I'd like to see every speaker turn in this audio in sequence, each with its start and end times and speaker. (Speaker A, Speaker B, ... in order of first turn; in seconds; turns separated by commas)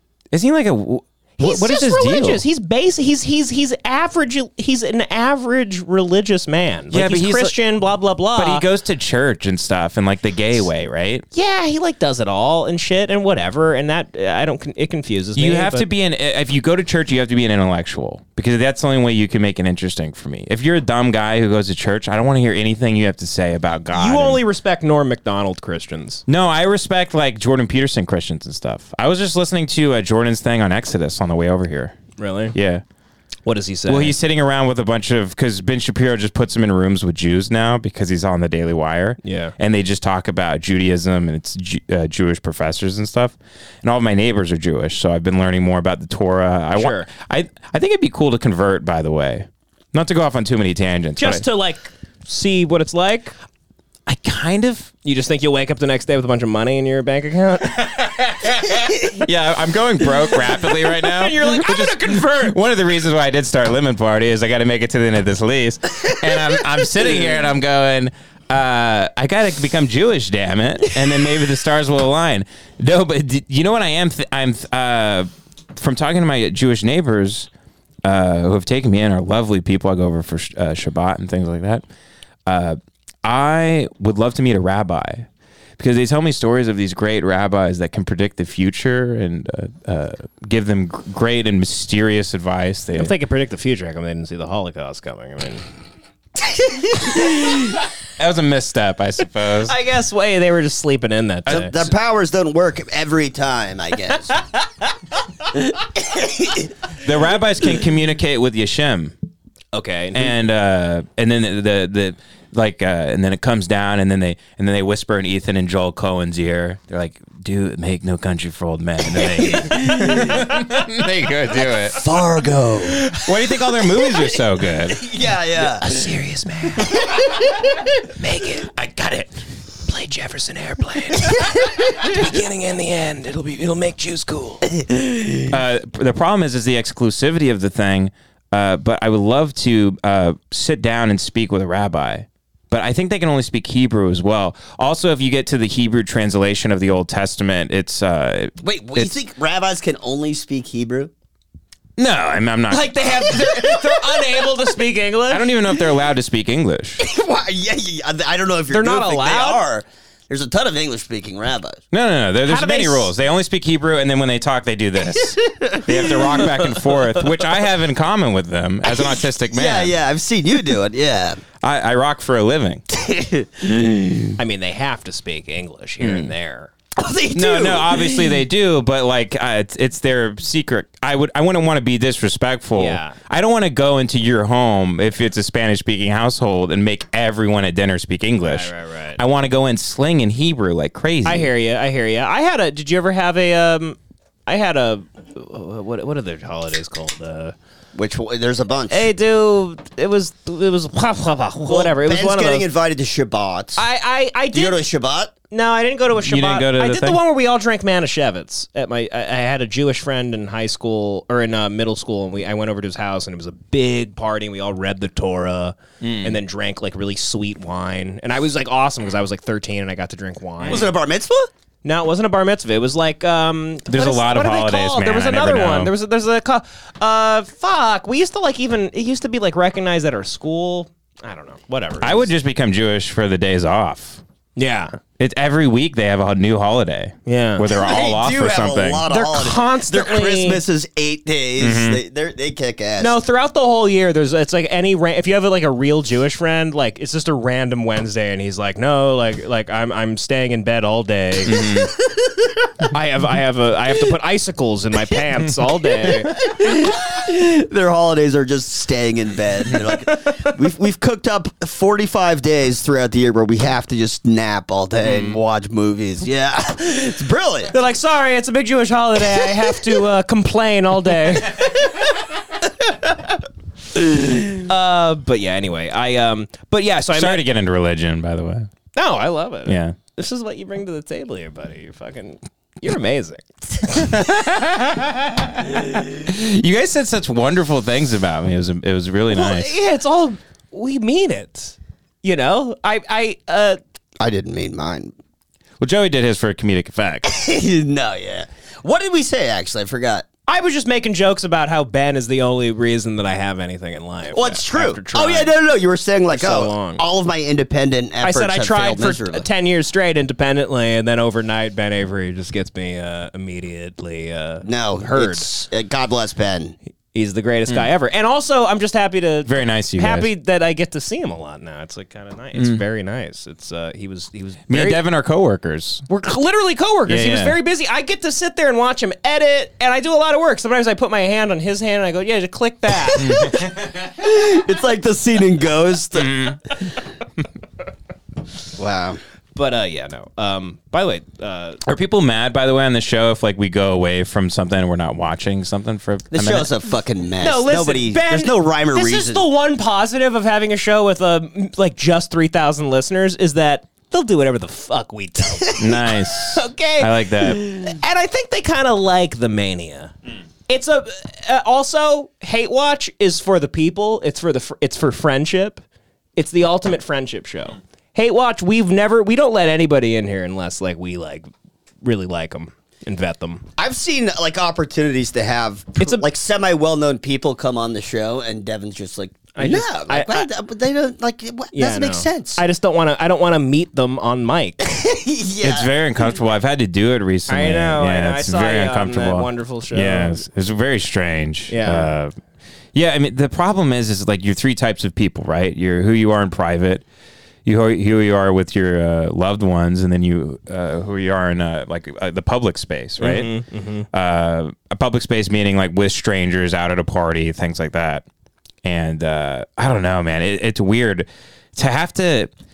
Speaker A: 0.3-2.4, Speaker B: 1.4-8.6, Speaker A: 6.9-7.6, Speaker A: 8.4-11.2, Speaker B: 11.3-15.9, Speaker A: 15.4-24.4, Speaker B: 23.9-26.2, Speaker A: 26.3-32.0, Speaker B: 32.2-32.5, Speaker A: 32.5-32.8, Speaker B: 33.5-34.2, Speaker A: 33.9-51.5, Speaker B: 39.2-39.5, Speaker B: 46.8-47.1, Speaker B: 51.2-53.3, Speaker A: 54.1-54.9, Speaker B: 55.0-57.8, Speaker A: 57.7-77.5, Speaker B: 60.9-62.6, Speaker A: 78.0-81.8, Speaker A: 82.5-85.3, Speaker A: 85.8-93.1, Speaker B: 92.9-95.6, Speaker A: 97.0-99.8, Speaker B: 99.7-101.7, Speaker A: 101.5-101.7, Speaker C: 101.5-104.4, Speaker C: 105.5-106.7, Speaker A: 107.0-109.1, Speaker B: 109.7-110.3, Speaker A: 110.2-122.0, Speaker C: 119.6-120.5, Speaker C: 121.9-123.0, Speaker A: 123.0-125.0, Speaker C: 125.0-125.9, Speaker B: 125.6-127.1, Speaker B: 128.1-128.8, Speaker A: 128.8-129.2, Speaker B: 129.9-134.7, Speaker A: 135.5-149.2, Speaker C: 148.6-151.1, Speaker A: 152.0-153.5, Speaker B: 152.7-155.5, Speaker A: 155.3-157.0, Speaker C: 157.0-161.8, Speaker B: 158.7-159.6, Speaker A: 161.9-170.0, Speaker B: 162.4-163.1, Speaker C: 165.5-166.3, Speaker C: 168.8-171.4, Speaker A: 171.6-172.8, Speaker C: 172.9-174.3, Speaker B: 174.4-176.7, Speaker A: 176.0-176.3, Speaker C: 177.0-178.4, Speaker A: 177.3-191.5, Speaker B: 182.8-183.2, Speaker B: 188.4-189.2, Speaker B: 191.2-197.6, Speaker C: 197.9-199.1, Speaker B: 198.9-202.7, Speaker C: 201.7-203.8, Speaker B: 203.8-204.8, Speaker C: 204.5-205.3, Speaker B: 205.5-220.9, Speaker A: 206.2-207.2, Speaker A: 216.0-216.4, Speaker C: 220.7-221.5, Speaker B: 221.8-232.3, Speaker A: 223.9-225.9, Speaker A: 232.0-234.2, Speaker B: 234.6-235.0, Speaker A: 235.2-239.1, Speaker B: 237.3-237.6, Speaker C: 237.7-243.2, Speaker B: 239.1-240.6, Speaker A: 241.6-242.0, Speaker B: 243.0-251.7, Speaker A: 251.5-251.9, Speaker B: 252.9-256.3, Speaker C: 256.4-267.7, Speaker B: 267.7-271.9, Speaker B: 274.5-277.4, Speaker A: 277.1-278.7, Speaker B: 278.9-284.2, Speaker A: 279.7-280.0, Speaker A: 283.9-289.7, Speaker B: 289.3-293.8, Speaker C: 294.2-295.1, Speaker A: 295.8-297.3, Speaker C: 297.3-300.3, Speaker B: 300.5-305.5, Speaker C: 304.3-309.5, Speaker B: 306.3-307.0, Speaker B: 308.2-315.5, Speaker C: 314.6-316.8, Speaker B: 317.1-325.0, Speaker A: 319.5-320.3, Speaker A: 322.6-322.8, Speaker A: 324.7-326.0, Speaker B: 326.1-333.4, Speaker A: 327.1-327.6, Speaker A: 333.2-333.9, Speaker C: 334.1-336.6, Speaker A: 336.2-336.6, Speaker C: 338.8-339.2, Speaker B: 339.6-341.8, Speaker A: 341.9-346.7, Speaker C: 346.3-349.4, Speaker B: 347.4-360.1, Speaker A: 355.8-357.7, Speaker B: 360.7-365.8, Speaker B: 366.4-371.5, Speaker B: 372.0-373.6, Speaker C: 373.8-382.6, Speaker B: 376.0-376.2, Speaker B: 379.6-380.5, Speaker B: 381.7-384.9, Speaker C: 384.8-385.9, Speaker A: 385.6-392.3, Speaker B: 387.5-390.4, Speaker B: 391.7-392.1, Speaker A: 392.9-397.0, Speaker A: 397.6-403.6, Speaker B: 403.2-404.1, Speaker A: 404.1-408.2, Speaker A: 408.8-412.5